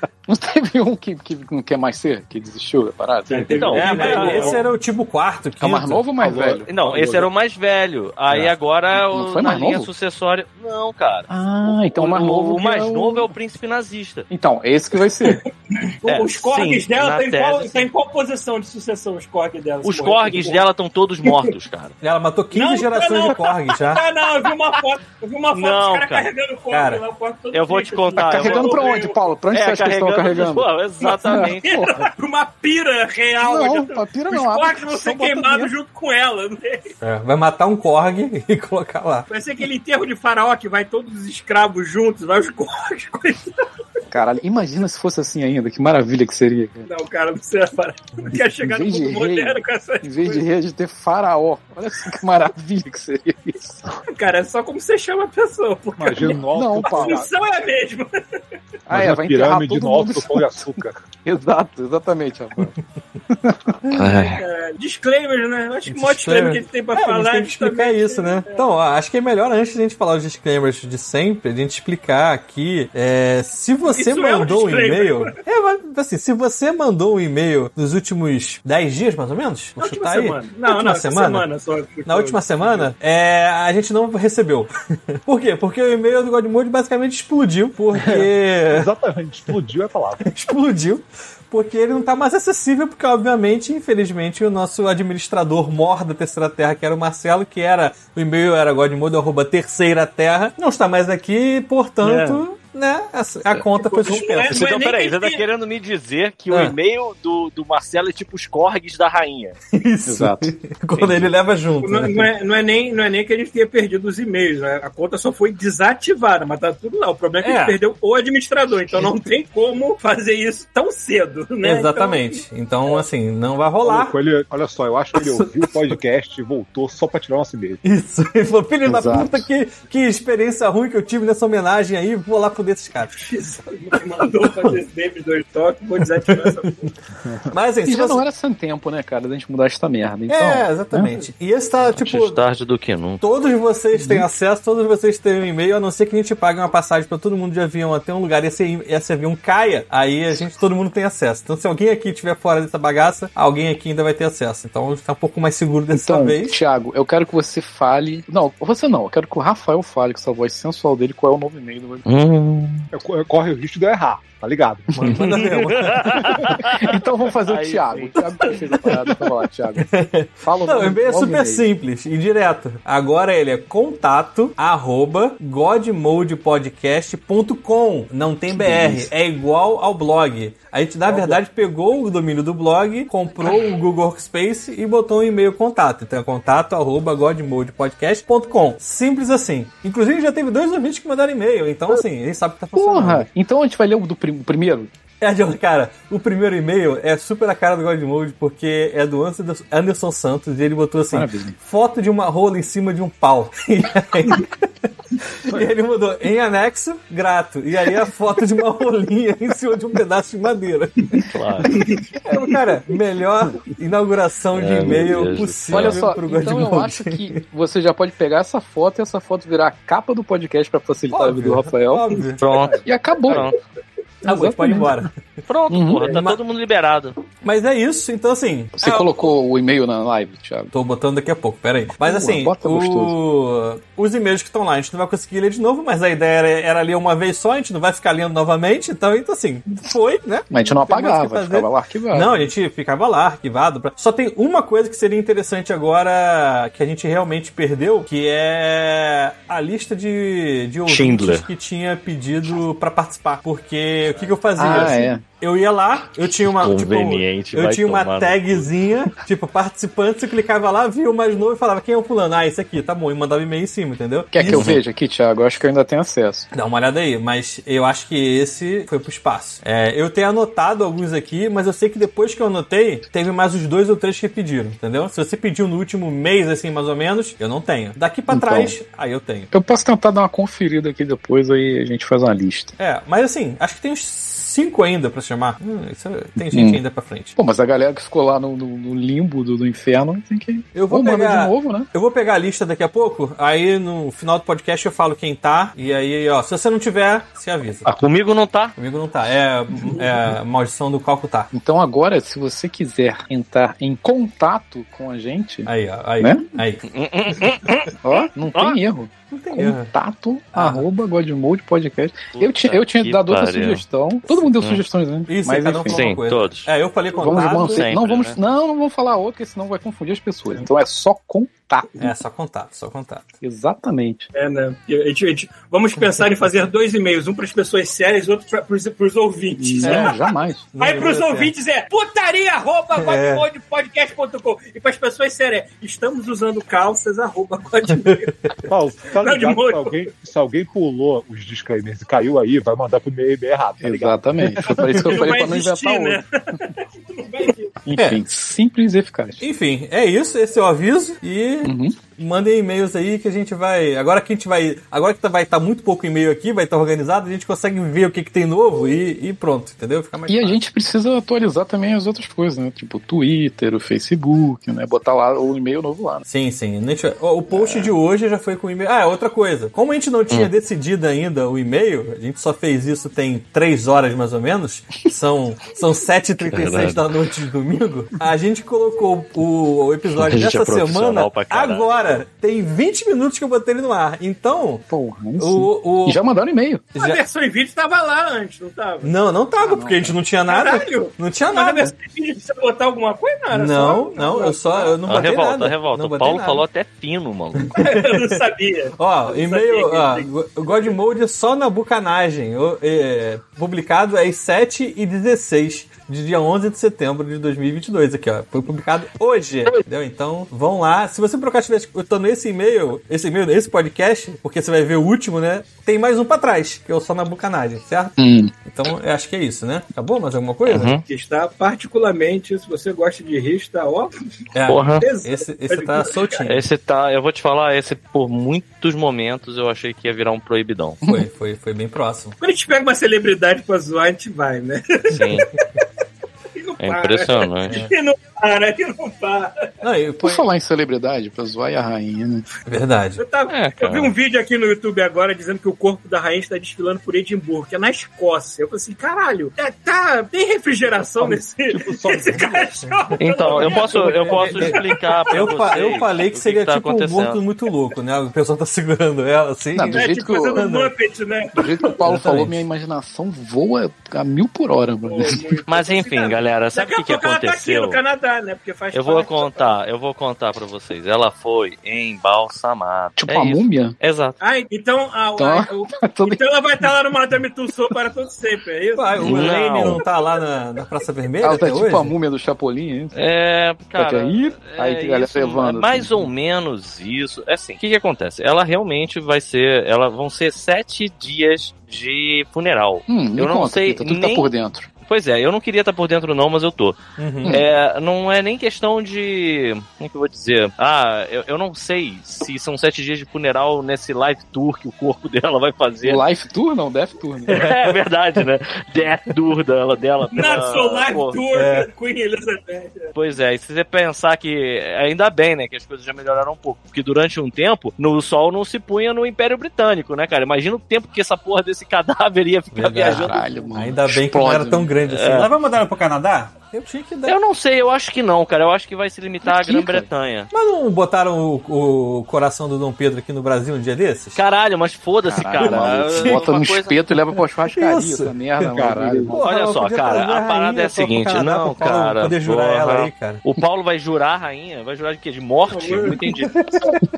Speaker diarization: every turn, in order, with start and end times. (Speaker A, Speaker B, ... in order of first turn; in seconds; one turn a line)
Speaker A: 0.3-4.4
Speaker B: 3.3-4.7
Speaker C: 3.5-4.6
Speaker D: 3.7-6.0
Speaker A: 5.6-6.7
Speaker E: 6.2-7.3
Speaker C: 6.7-11.3
Speaker A: 8.9-9.9
Speaker A: 11.3-13.3
Speaker C: 11.8-14.3
Speaker A: 14.3-15.4
Speaker B: 15.2-20.7
Speaker C: 16.1-17.9
Speaker C: 19.8-22.0
Speaker B: 21.2-21.5
Speaker D: 22.0-24.0
Speaker B: 22.5-29.2
Speaker C: 25.5-26.3
Speaker D: 26.7-27.0
Speaker C: 27.5-28.8
Speaker A: 28.2-30.7
Speaker C: 29.5-32.0
Speaker B: 31.0-36.9
Speaker A: 31.2-32.1
Speaker A: 33.4-35.7
Speaker D: 37.0-39.3
Speaker B: 39.3-43.5
Speaker A: 44.1-46.9
Speaker B: 46.9-50.4
Speaker A: 48.3-53.9
Speaker B: 54.1-58.2
Speaker E: 56.0-57.3
Speaker A: 56.0-57.2
Speaker A: 58.9-62.8
Speaker E: 58.9-61.1
Speaker A: 63.3-64.3
Speaker C: 63.9-64.4
Speaker B: 64.4-68.7
Speaker D: 65.9-81.5
Speaker B: 73.9-75.3
Speaker B: 79.8-82.9
Speaker D: 82.1-88.9
Speaker E: 88.0-90.3
Speaker D: 90.2-104.7
Speaker A: 102.0-102.3
Speaker C: 102.0-102.4
Speaker B: 103.7-105.4
Speaker C: 104.5-109.6
Speaker D: 106.5-106.8
Speaker D: 109.7-112.3
Speaker A: 110.1-110.5
Speaker C: 111.0-111.2
Speaker B: 111.8-123.0
Speaker D: 117.4-117.8
Speaker D: 121.6-124.2
Speaker E: 123.8-127.8
Speaker D: 125.2-125.7
Speaker D: 127.8-133.2
Speaker A: 128.9-129.5
Speaker B: 133.1-136.9
Speaker D: 134.4-134.8
Speaker D: 136.3-136.9
Speaker D: 137.5-138.2
Speaker A: 137.8-141.2
Speaker D: 140.3-142.4
Speaker C: 141.9-143.2
Speaker D: 143.2-156.6
Speaker A: 143.9-144.3
Speaker A: 155.9-162.7
Speaker C: 162.1-162.8
Speaker E: 162.9-165.5
Speaker D: 164.9-166.6
Speaker C: 165.1-168.6
Speaker A: 166.6-169.9
Speaker D: 169.8-193.3
Speaker A: 170.4-171.7
Speaker A: 178.5-179.1
Speaker E: 181.1-181.4
Speaker A: 192.8-194.9
Speaker D: 195.2-211.3
Speaker A: 201.1-201.6
Speaker C: 211.2-211.8
Speaker B: 211.7-212.5
Speaker D: 212.2-217.3
Speaker C: 214.5-216.0
Speaker A: 215.7-222.1
Speaker D: 221.1-222.7
Speaker C: 222.4-223.6
Speaker A: 222.8-223.5
Speaker A: 224.2-225.0
Speaker D: 224.2-225.2
Speaker C: 225.5-227.2
Speaker A: 225.7-226.1
Speaker D: 226.0-226.4
Speaker D: 227.4-229.3
Speaker A: 228.8-230.7
Speaker D: 230.7-264.8
Speaker A: 232.0-233.2
Speaker A: 240.5-242.5
Speaker C: 250.9-251.5
Speaker A: 254.6-255.2
Speaker C: 256.6-258.7
Speaker A: 264.3-266.5
Speaker C: 264.5-264.8
Speaker D: 266.5-279.5
Speaker A: 278.3-278.8
Speaker A: 279.5-282.8
Speaker D: 282.8-287.4
Speaker A: 286.4-286.8
Speaker A: 287.4-291.9
Speaker D: 290.7-297.9
Speaker C: 297.9-298.8
Speaker D: 298.8-301.5
Speaker A: 301.5-306.5
Speaker D: 305.7-306.9
Speaker C: 306.9-308.0
Speaker A: 308.0-316.1
Speaker C: 308.5-308.8
Speaker D: 309.3-309.9
Speaker D: 310.6-310.8
Speaker C: 312.3-313.8
Speaker C: 314.6-314.9
Speaker D: 315.3-318.0
Speaker C: 315.9-316.7
Speaker A: 317.1-322.1
Speaker C: 317.2-318.4
Speaker D: 322.0-323.3
Speaker A: 323.4-324.3
Speaker B: 324.3-338.5
Speaker A: 329.6-330.7
Speaker D: 329.8-330.2
Speaker D: 330.8-331.5
Speaker D: 333.0-333.4
Speaker E: 338.7-344.8
Speaker B: 339.2-340.1
Speaker A: 343.8-346.2
Speaker D: 344.8-345.4
Speaker B: 344.8-347.8
Speaker A: 347.9-349.4
Speaker D: 348.0-348.2
Speaker D: 349.4-360.6
Speaker A: 351.6-352.0
Speaker A: 360.3-366.3
Speaker D: 366.3-384.9
Speaker A: 367.5-367.9
Speaker C: 376.4-377.1
Speaker C: 380.1-381.9
Speaker A: 384.9-386.8
Speaker D: 385.4-386.2
Speaker D: 387.0-387.2
Speaker B: 387.0-389.1
Speaker D: 389.0-391.9
Speaker A: 389.6-390.2
Speaker B: 390.5-395.0
Speaker D: 393.5-396.6
Speaker C: 395.1-397.7
Speaker D: 397.6-398.4
Speaker B: 397.8-400.9
Speaker D: 399.0-421.0
Speaker A: 418.2-418.5
Speaker C: 420.7-421.0
Speaker B: 421.1-424.1
Speaker D: 424.6-426.6
Speaker C: 424.7-425.1
Speaker B: 425.0-426.4
Speaker C: 426.4-431.0
Speaker D: 431.1-432.4
Speaker B: 432.4-435.4
Speaker C: 435.1-435.5
Speaker B: 436.6-439.5
Speaker C: 436.8-437.8
Speaker D: 439.8-440.4
Speaker A: 440.2-442.5
Speaker D: 442.7-443.2
Speaker B: 443.2-455.5
Speaker C: 443.5-444.1
Speaker E: 451.2-452.7
Speaker D: 452.8-460.9
Speaker C: 453.2-457.4
Speaker A: 459.7-460.7
Speaker B: 459.9-461.9
Speaker A: 461.6-465.4
Speaker D: 462.0-462.6
Speaker B: 465.1-469.7
Speaker C: 465.7-468.0
Speaker C: 468.9-474.4
Speaker A: 473.2-473.9
Speaker B: 474.4-479.5
Speaker A: 475.4-476.9
Speaker D: 479.0-482.1
Speaker C: 479.2-480.0
Speaker A: 481.4-483.1
Speaker C: 483.1-494.5
Speaker A: 483.9-486.3
Speaker A: 493.1-494.9
Speaker C: 495.1-506.2
Speaker D: 497.2-497.6
Speaker A: 497.4-497.7
Speaker A: 506.0-507.6
Speaker D: 507.5-508.0
Speaker C: 507.5-511.4
Speaker B: 510.3-513.1
Speaker D: 511.5-511.9
Speaker C: 513.1-523.5
Speaker D: 522.7-527.4
Speaker A: 523.0-524.9
Speaker C: 525.1-525.5
Speaker C: 527.3-530.5
Speaker A: 529.4-530.1
Speaker D: 530.5-534.4
Speaker C: 534.4-537.0
Speaker A: 535.2-539.4
Speaker D: 535.6-536.5
Speaker D: 537.7-538.7
Speaker E: 538.7-539.4
Speaker D: 539.3-543.4
Speaker C: 539.4-546.5
Speaker B: 545.7-546.3
Speaker D: 546.5-547.0